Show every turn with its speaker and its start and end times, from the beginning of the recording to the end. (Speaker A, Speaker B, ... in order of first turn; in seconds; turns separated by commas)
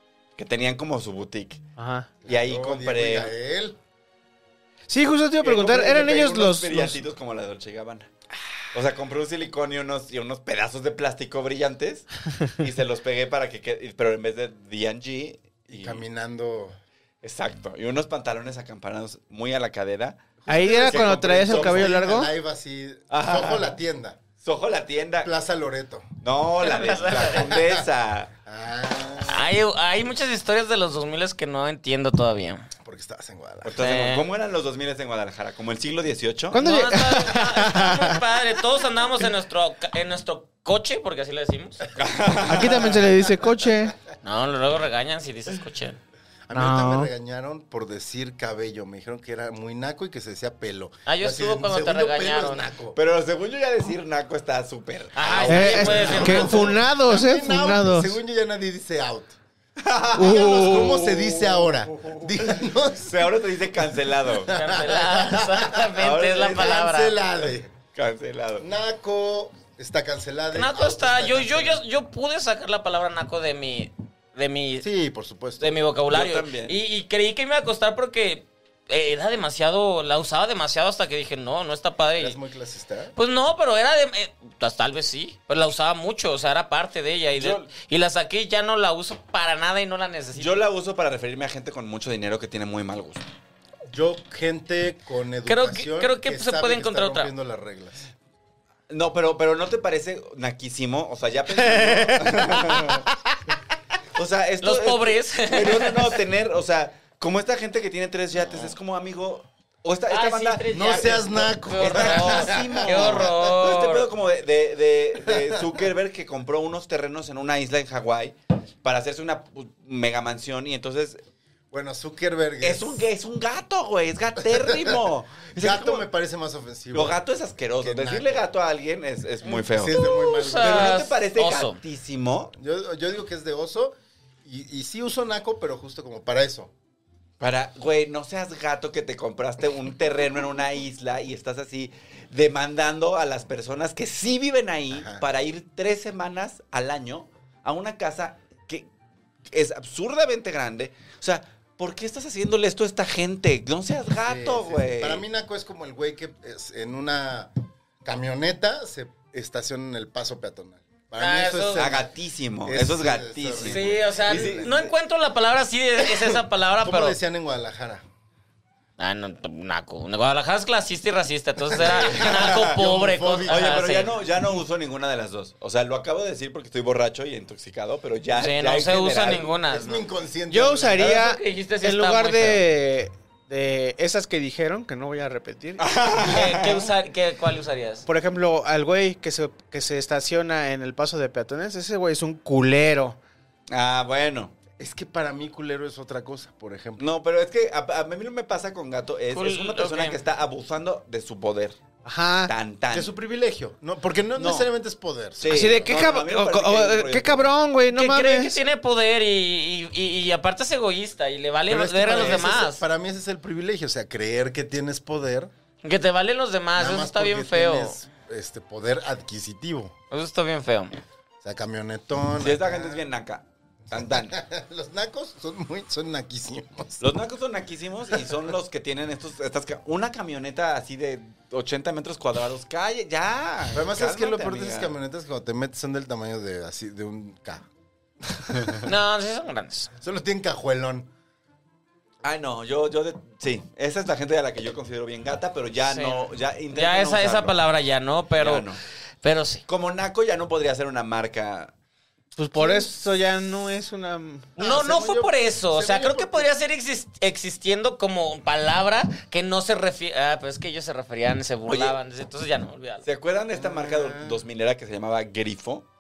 Speaker A: 0.4-1.6, Speaker B: 1.8-2.1, Speaker C: 2.2-3.8, Speaker A: 2.3-3.3, Speaker B: 4.9-7.0, Speaker A: 5.4-8.1, Speaker A: 8.7-16.0, Speaker C: 15.7-16.8, Speaker A: 17.2-22.0, Speaker C: 20.4-24.2, Speaker B: 20.5-22.3, Speaker A: 23.1-23.8, Speaker A: 24.4-25.3, Speaker C: 25.2-26.1, Speaker A: 26.2-28.3, Speaker D: 26.6-27.5, Speaker C: 27.0-27.9, Speaker C: 28.5-29.5, Speaker D: 29.2-32.7, Speaker C: 32.8-33.8, Speaker A: 33.6-36.7, Speaker D: 33.8-34.3, Speaker B: 36.5-38.2, Speaker D: 36.5-41.9, Speaker A: 42.0-43.1, Speaker B: 42.5-44.0, Speaker C: 42.6-43.0, Speaker D: 44.2-46.0, Speaker C: 46.5-53.0, Speaker B: 46.5-47.1, Speaker D: 51.1-52.7, Speaker A: 53.0-56.8, Speaker D: 55.1-56.7, Speaker C: 55.3-59.4, Speaker B: 55.5-58.2, Speaker A: 59.8-62.5, Speaker B: 60.1-61.0, Speaker C: 60.1-63.3, Speaker A: 63.0-64.5, Speaker C: 64.2-67.8, Speaker D: 64.5-67.2, Speaker A: 66.0-66.8, Speaker A: 67.9-68.7, Speaker C: 68.6-71.8, Speaker D: 70.5-74.9, Speaker C: 74.8-75.8, Speaker D: 75.6-82.4, Speaker A: 76.1-76.8, Speaker C: 82.2-83.1, Speaker D: 83.2-90.6, Speaker A: 87.4-87.7, Speaker A: 90.4-93.2, Speaker C: 93.9-98.1, Speaker D: 95.5-97.3, Speaker A: 98.9-103.1, Speaker A: 104.2-121.2, Speaker D: 104.6-106.2, Speaker D: 110.1-114.1, Speaker C: 110.7-113.3, Speaker C: 115.3-115.8, Speaker C: 121.7-123.1, Speaker A: 122.6-126.1, Speaker C: 124.5-125.0, Speaker C: 125.5-127.2, Speaker A: 126.9-130.0, Speaker C: 127.8-128.4, Speaker C: 129.5-131.0, Speaker D: 129.9-131.8, Speaker A: 130.6-132.6, Speaker C: 132.6-136.7, Speaker A: 137.4-148.9, Speaker C: 144.9-145.2, Speaker A: 149.5-155.2, Speaker C: 154.2-157.5, Speaker C: 158.0-162.1, Speaker D: 161.2-161.9, Speaker A: 161.8-164.9, Speaker C: 162.7-164.7, Speaker D: 163.7-167.2, Speaker C: 166.2-168.0, Speaker D: 169.0-174.1, Speaker A: 171.7-172.8, Speaker C: 171.7-173.9, Speaker A: 173.5-179.5, Speaker D: 178.4-180.0, Speaker C: 179.5-181.2, Speaker B: 180.5-185.8, Speaker D: 181.0-182.6, Speaker A: 185.8-186.9, Speaker D: 186.2-188.1, Speaker B: 188.1-193.2, Speaker A: 193.7-194.6, Speaker C: 194.8-197.0, Speaker A: 197.0-201.8, Speaker D: 199.3-200.2, Speaker B: 202.1-202.5, Speaker A: 202.4-203.1, Speaker C: 202.9-205.8, Speaker A: 204.4-204.7, Speaker A: 205.4-207.5, Speaker B: 205.5-208.6, Speaker D: 207.9-212.8, Speaker C: 211.7-215.5, Speaker D: 215.8-218.0, Speaker C: 216.8-219.9, Speaker D: 220.1-221.0, Speaker C: 221.4-223.0, Speaker A: 222.4-224.4, Speaker C: 223.9-227.1, Speaker A: 227.0-234.9, Speaker C: 233.7-237.7, Speaker C: 238.2-238.9, Speaker D: 238.8-239.9, Speaker C: 240.0-241.1, Speaker A: 242.2-247.6, Speaker D: 245.8-248.7, Speaker A: 248.4-248.8, Speaker D: 249.2-249.6, Speaker A: 249.7-251.7, Speaker B: 252.3-254.5, Speaker C: 252.6-252.9, Speaker C: 254.6-256.5, Speaker D: 254.6-263.1, Speaker A: 261.7-262.0, Speaker A: 263.0-265.9, Speaker C: 263.5-264.4